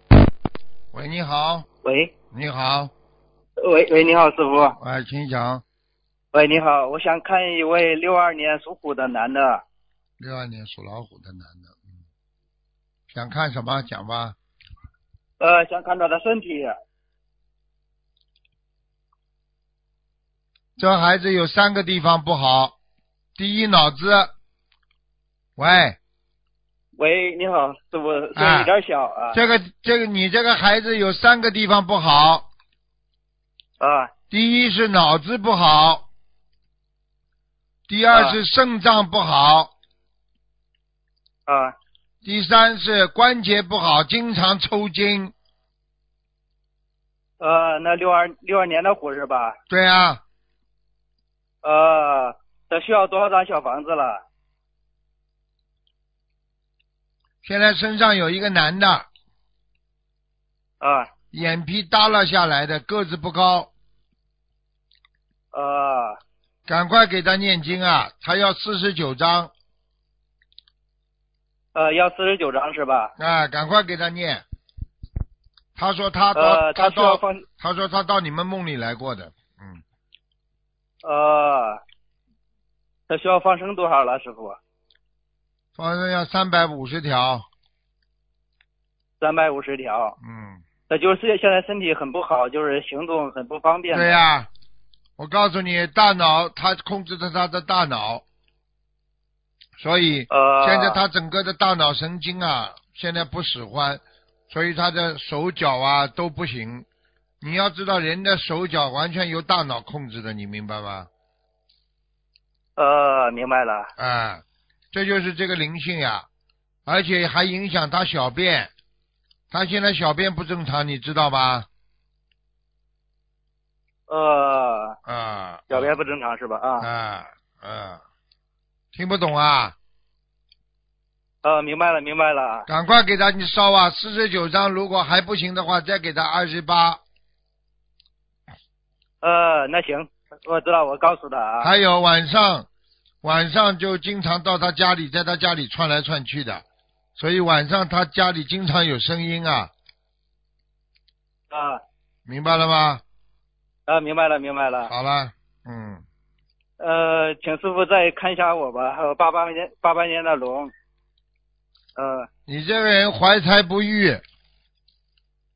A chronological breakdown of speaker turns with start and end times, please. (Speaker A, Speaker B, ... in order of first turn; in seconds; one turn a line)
Speaker A: 0.9-1.7
Speaker B: 1.8-2.1
Speaker A: 2.3-2.9
Speaker B: 3.6-4.8
Speaker A: 4.8-5.6
Speaker B: 6.3-9.6
Speaker A: 10.2-11.9
Speaker A: 13.1-14.3
Speaker B: 15.4-16.8
Speaker A: 20.8-22.7
Speaker A: 23.4-24.3
Speaker A: 25.6-26.0
Speaker B: 27.0-29.4
Speaker A: 28.4-28.7
Speaker A: 29.3-32.5
Speaker B: 33.8-34.1
Speaker A: 34.3-36.1
Speaker A: 37.9-39.7
Speaker B: 38.1-38.4
Speaker B: 41.5-41.7
Speaker A: 42.2-45.3
Speaker B: 47.4-49.5
Speaker A: 49.7-50.2
Speaker B: 51.6-54.2
Speaker A: 57.4-59.1
Speaker B: 60.8-61.1
Speaker A: 61.3-63.7
Speaker B: 65.5-66.2
Speaker A: 66.7-69.5
Speaker B: 71.7-73.1
Speaker A: 73.2-74.4
Speaker A: 75.8-79.8
Speaker B: 76.3-77.4
Speaker B: 81.0-81.8
Speaker B: 83.1-84.6
Speaker A: 85.8-87.5
Speaker B: 89.2-90.1
Speaker A: 90.2-90.6
Speaker B: 90.9-94.1
Speaker A: 93.9-94.5
Speaker A: 95.2-98.2
Speaker A: 99.8-106.8
Speaker B: 100.3-101.0
Speaker A: 107.4-111.1
Speaker B: 112.8-113.9
Speaker A: 114.0-116.3
Speaker A: 116.8-118.7
Speaker A: 119.5-121.7
Speaker B: 124.1-125.0
Speaker A: 125.0-126.0
Speaker B: 125.7-126.9
Speaker A: 126.8-128.0
Speaker A: 128.9-129.8
Speaker B: 131.4-132.7
Speaker A: 132.7-137.0
Speaker B: 139.2-141.7
Speaker A: 141.6-142.7
Speaker A: 143.2-146.6
Speaker A: 147.2-149.7
Speaker B: 151.5-151.8
Speaker A: 152.3-153.0
Speaker B: 153.9-154.9
Speaker A: 154.8-156.0
Speaker B: 156.8-160.7
Speaker B: 161.9-162.3
Speaker A: 162.5-164.2